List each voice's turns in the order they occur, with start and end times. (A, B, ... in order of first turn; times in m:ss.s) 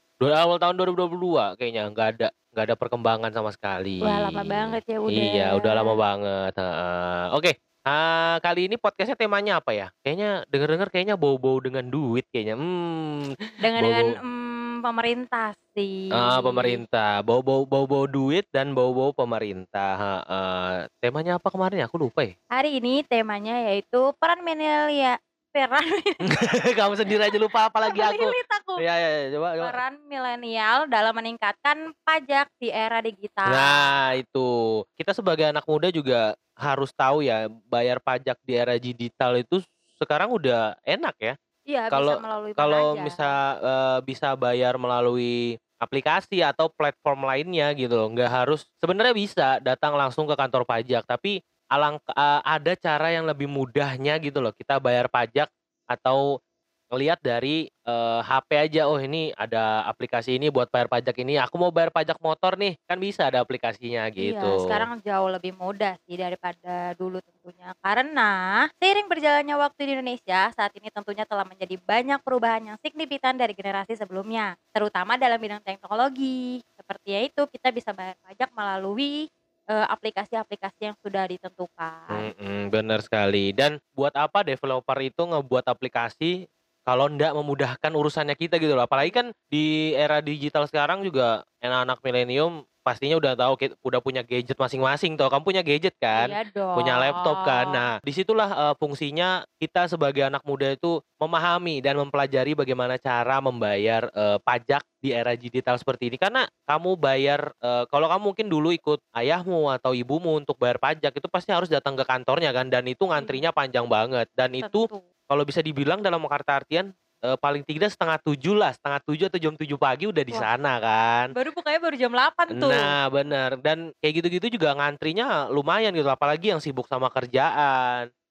0:00.2-0:14.2 A
0:04.0-0:05.9 B
0:13.6-0:16.8 B
0:16.1-0:22.3 A
0:22.5-0:26.4 B
0:26.3-0:29.8 A
0:27.9-0:28.8 B
0:29.6-0:34.0 B
0:33.5-0:41.4 A
0:41.7-0:43.3 B
0:41.9-0:56.3 A
0:56.9-1:04.8 A
1:04.2-1:19.2 B
1:19.7-1:22.3 B
1:22.1-1:26.3 A
1:26.9-2:01.3 A
1:36.1-1:37.8 B
1:53.2-1:53.4 B
1:54.6-1:55.1 B
2:01.4-2:02.9 B
2:02.5-2:08.1 A